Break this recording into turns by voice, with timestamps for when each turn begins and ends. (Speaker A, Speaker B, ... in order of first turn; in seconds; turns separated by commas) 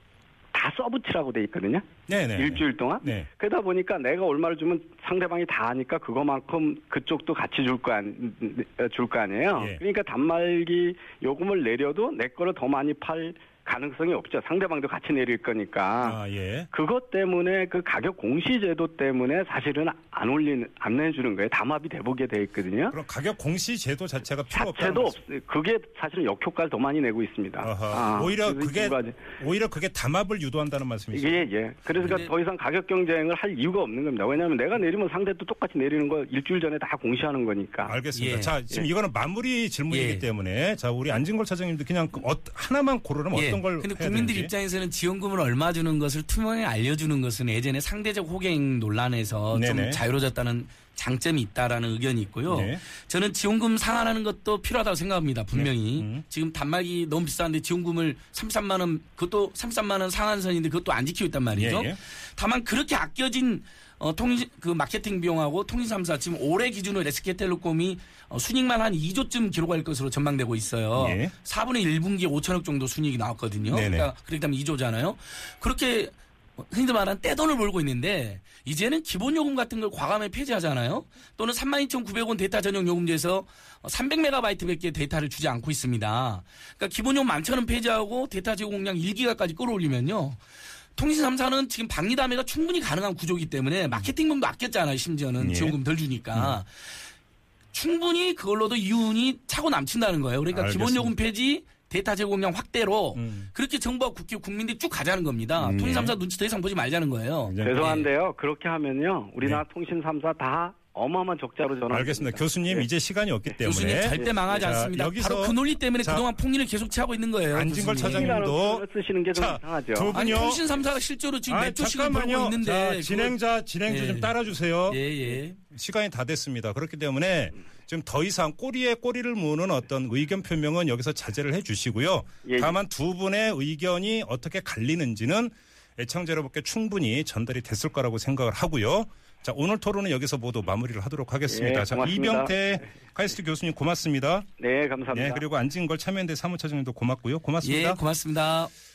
Speaker A: 0.5-16.2, Speaker B: 2.1-3.3, Speaker B: 16.0-16.7, Speaker A: 16.7-22.9, Speaker B: 22.9-25.2, Speaker A: 24.5-29.2, Speaker B: 27.6-31.5, Speaker A: 31.1-38.0, Speaker C: 32.0-32.3, Speaker B: 37.9-44.5, Speaker C: 38.1-38.6, Speaker C: 39.9-40.2, Speaker C: 43.3-90.4, Speaker B: 49.5-50.0, Speaker B: 52.5-52.8, Speaker B: 55.5-56.2, Speaker B: 61.5-62.0, Speaker B: 71.0-71.3, Speaker B: 73.7-74.1, Speaker C: 91.0-97.0, Speaker B: 95.4-95.8, Speaker B: 96.3-96.6, Speaker C: 97.7-108.1, Speaker B: 100.5-101.1, Speaker B: 103.2-103.5, Speaker B: 105.6-106.2, Speaker B: 107.5-107.7, Speaker A: 107.6-112.9, Speaker B: 111.9-116.3, Speaker C: 113.6-118.4, Speaker A: 114.1-114.8, Speaker B: 117.5-120.7, Speaker A: 118.0-120.3, Speaker C: 120.1-123.4, Speaker B: 121.5-125.0, Speaker C: 123.9-124.3, Speaker C: 124.9-125.6, Speaker B: 125.7-144.5, Speaker A: 132.4-132.8, Speaker A: 141.5-142.9, Speaker A: 144.6-145.4, Speaker B: 145.1-148.0, Speaker C: 147.6-148.7